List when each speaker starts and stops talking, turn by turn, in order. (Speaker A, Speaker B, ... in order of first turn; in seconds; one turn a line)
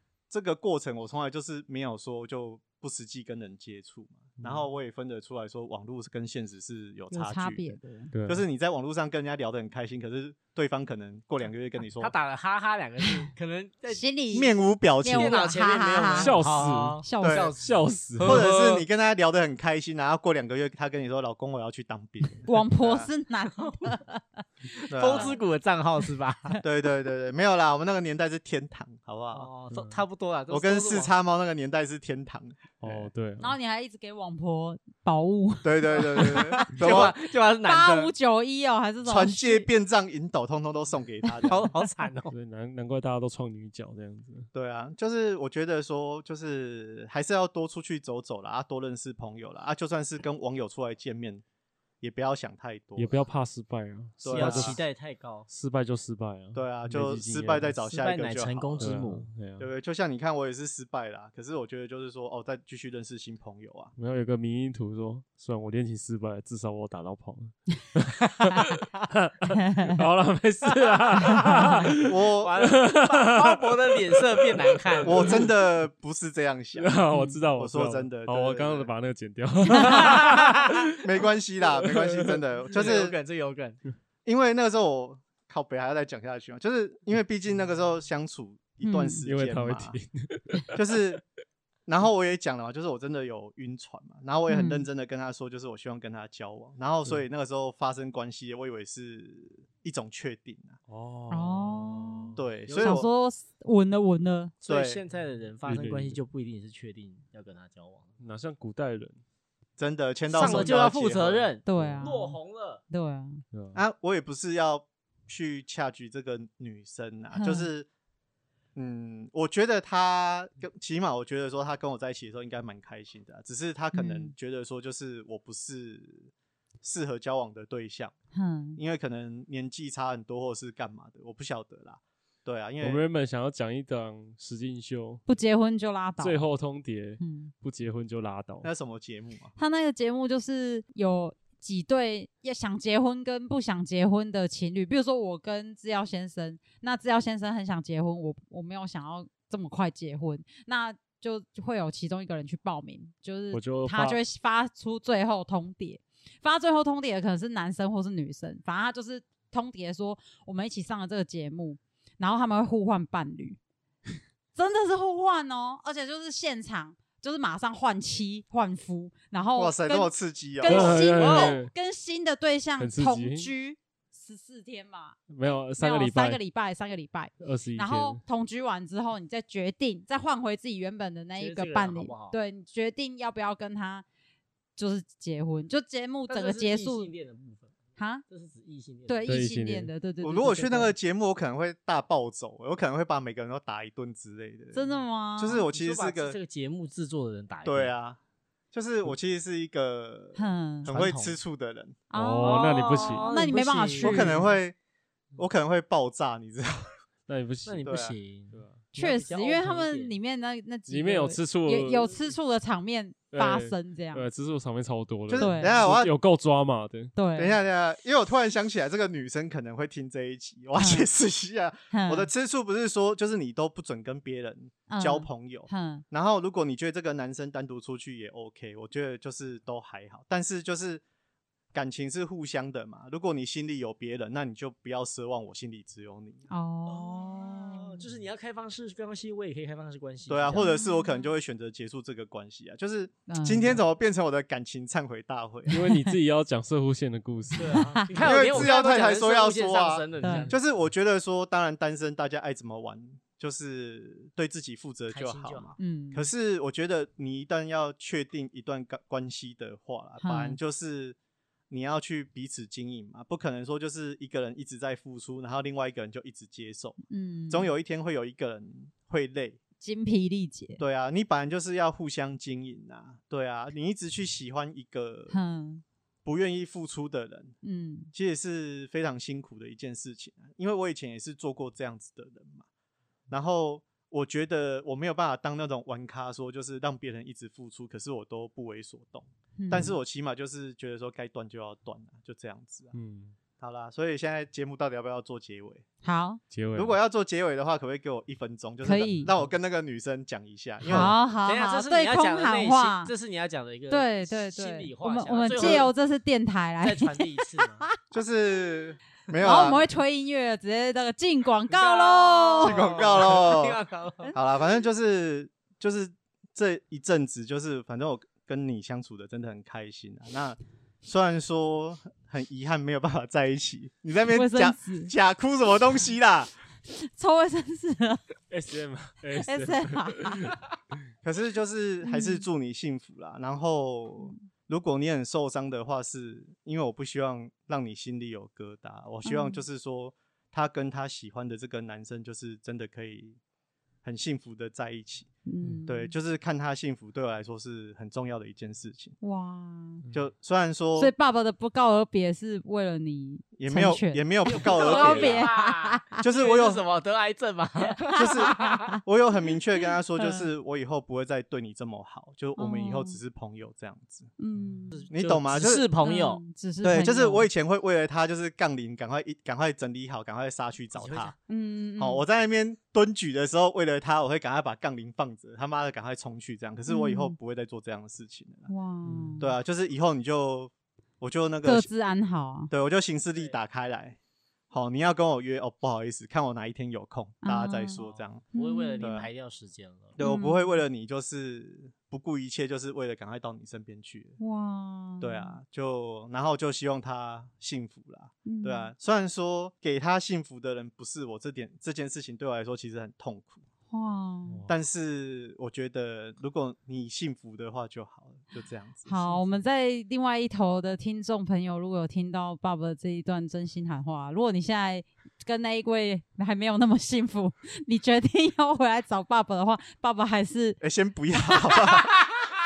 Speaker A: 0.3-12.1
Speaker B: 4.4-4.6
Speaker C: 7.1-8.1
Speaker B: 8.1-8.4
Speaker D: 12.0-14.0
Speaker C: 13.9-16.4
Speaker A: 14.3-15.4
Speaker D: 15.1-18.8
Speaker B: 16.2-17.0
Speaker C: 17.0-17.5
Speaker A: 17.2-17.5
Speaker B: 17.6-18.6
Speaker A: 18.2-23.1
Speaker C: 22.4-24.2
Speaker C: 24.8-25.4
Speaker D: 24.9-26.6
Speaker A: 24.9-25.4
Speaker A: 26.6-29.5
Speaker D: 29.3-31.1
Speaker B: 29.7-30.0
Speaker A: 30.5-33.1
Speaker B: 32.8-33.6
Speaker C: 33.4-37.1
Speaker A: 35.6-37.1
Speaker D: 36.2-38.1
Speaker C: 37.6-39.7
Speaker A: 39.0-41.7
Speaker D: 41.4-42.3
Speaker B: 42.3-44.5
Speaker A: 44.5-51.4
Speaker A: 52.0-53.2
Speaker B: 53.0-54.8
Speaker A: 54.2-54.8
Speaker D: 54.3-55.5
Speaker B: 55.5-57.8
Speaker A: 56.5-59.0
Speaker D: 57.8-59.3
Speaker B: 58.8-59.7
Speaker A: 59.6-63.9
Speaker B: 64.0-75.5
Speaker C: 69.5-70.0
Speaker D: 70.7-71.8
Speaker A: 72.0-72.5
Speaker D: 72.4-75.4
Speaker A: 75.0-77.0
Speaker B: 76.8-80.8
Speaker C: 77.1-77.4
Speaker A: 77.6-78.9
Speaker D: 80.0-80.7
Speaker A: 81.0-83.2
Speaker B: 81.8-82.4
Speaker D: 82.7-83.8
Speaker A: 84.2-89.9
Speaker C: 88.8-89.2
Speaker B: 89.2-90.8
Speaker A: 90.7-91.2
Speaker A: 91.9-100.8
Speaker C: 94.5-94.8
Speaker B: 100.9-102.4
Speaker C: 101.3-104.5
Speaker A: 102.3-103.1
Speaker D: 102.7-103.0
Speaker D: 104.6-108.1
Speaker A: 104.7-105.0
Speaker B: 105.6-106.2
Speaker B: 108.2-109.2
Speaker A: 109.8-111.5
Speaker D: 110.3-112.8
Speaker B: 110.3-110.9
Speaker C: 111.7-112.4
Speaker B: 111.7-112.2
Speaker C: 112.9-113.4
Speaker B: 113.5-113.8
Speaker A: 113.7-117.9
Speaker C: 117.3-117.7
Speaker A: 118.8-126.3
Speaker C: 123.9-124.3
Speaker A: 126.8-128.1
Speaker C: 128.3-128.8
Speaker A: 128.8-133.0
Speaker B: 132.8-135.2
Speaker C: 135.2-136.5
Speaker B: 136.2-138.7
Speaker C: 137.2-137.5
Speaker A: 138.6-139.5
Speaker C: 139.6-163.6
Speaker B: 153.5-154.2
Speaker C: 164.5-175.2
Speaker A: 169.6-171.1
Speaker B: 170.7-171.7
Speaker D: 170.8-171.6
Speaker B: 172.8-173.5
Speaker B: 175.3-176.4
Speaker C: 175.8-184.1
Speaker B: 177.4-178.2
Speaker D: 181.4-182.4
Speaker C: 184.8-187.1
Speaker D: 186.3-187.8
Speaker C: 188.0-188.2
Speaker D: 188.3-189.3
Speaker C: 189.1-190.9
Speaker B: 189.3-189.9
Speaker A: 190.2-196.4
Speaker C: 194.7-195.7
Speaker D: 195.7-197.9
Speaker A: 197.6-198.2
Speaker A: 198.7-202.0
Speaker C: 200.3-200.9
Speaker D: 200.8-201.4
Speaker C: 202.1-204.5
Speaker B: 202.1-203.3
Speaker D: 202.4-204.4
Speaker A: 204.0-204.8
Speaker A: 205.3-206.9
Speaker B: 207.3-208.0
Speaker D: 207.7-210.2
Speaker A: 207.8-208.2
Speaker B: 208.5-208.8
Speaker C: 208.9-214.2
Speaker B: 210.9-212.2
Speaker B: 213.3-217.1
Speaker A: 215.3-216.1
Speaker C: 215.4-215.9
Speaker C: 217.1-217.6
Speaker A: 217.3-231.0
Speaker C: 220.8-221.1
Speaker C: 221.9-222.3
Speaker C: 224.9-226.0
Speaker A: 231.7-236.5
Speaker C: 236.5-238.0
Speaker D: 236.9-240.7
Speaker A: 240.3-245.7
Speaker C: 240.5-241.3
Speaker C: 243.3-243.8
Speaker C: 245.7-246.1
Speaker B: 245.7-247.8
Speaker D: 247.6-250.6
Speaker C: 247.7-248.1
Speaker A: 248.2-261.1
Speaker C: 250.2-250.5
Speaker D: 255.1-255.7
Speaker C: 255.8-256.3
Speaker C: 260.2-260.6
Speaker A: 261.7-269.6
Speaker C: 267.1-267.7
Speaker C: 269.8-270.8
Speaker A: 270.8-275.4
Speaker C: 275.3-275.8
Speaker A: 276.2-277.6
Speaker C: 277.6-278.1
Speaker A: 278.1-282.6
Speaker A: 283.3-292.9
Speaker C: 289.6-290.0
Speaker B: 292.9-293.4
Speaker A: 293.6-295.8
Speaker C: 296.0-296.4
Speaker B: 296.5-297.0
Speaker A: 296.7-301.1
Speaker C: 298.8-299.3
Speaker C: 300.9-303.1
Speaker D: 301.4-305.9
Speaker C: 303.9-307.9
Speaker A: 305.6-305.9
Speaker D: 306.8-307.9
Speaker A: 308.1-309.9
Speaker C: 309.4-312.8
Speaker D: 311.7-314.3
Speaker A: 312.6-313.8
Speaker A: 314.3-326.5
Speaker C: 324.3-325.1
Speaker C: 326.9-328.2
Speaker B: 328.5-330.6
Speaker C: 329.4-330.5
Speaker A: 331.2-343.4
Speaker C: 332.0-332.4
Speaker C: 339.2-339.6
Speaker A: 344.0-345.3
Speaker C: 345.4-346.1
Speaker A: 345.9-349.1
Speaker C: 349.2-350.0
Speaker A: 350.1-351.1
Speaker C: 350.9-356.2
Speaker A: 353.6-355.5
Speaker D: 354.4-358.9
Speaker A: 356.2-356.8
Speaker C: 358.0-359.0
Speaker A: 358.1-364.3
Speaker C: 360.2-360.5
Speaker C: 362.6-363.2
Speaker C: 364.4-365.1
Speaker D: 364.9-366.4
Speaker A: 365.1-365.9
Speaker C: 366.0-367.5
Speaker A: 366.8-371.4
Speaker D: 370.9-371.3
Speaker C: 371.5-372.2
Speaker A: 372.0-378.7
Speaker C: 376.9-377.4
Speaker C: 378.7-379.5
Speaker B: 379.1-379.4
Speaker A: 379.4-381.9
Speaker C: 381.6-382.7
Speaker A: 382.7-384.2
Speaker A: 384.7-388.4
Speaker C: 387.4-388.0
Speaker D: 388.0-390.1
Speaker C: 388.5-389.2
Speaker A: 389.0-389.3
Speaker A: 390.1-394.4
Speaker C: 390.2-390.8
Speaker C: 394.4-395.5
Speaker A: 395.2-403.6
Speaker C: 398.4-398.9
Speaker C: 403.9-404.6
Speaker B: 404.5-404.7
Speaker A: 404.7-409.6
Speaker C: 409.1-420.8
Speaker A: 420.8-422.1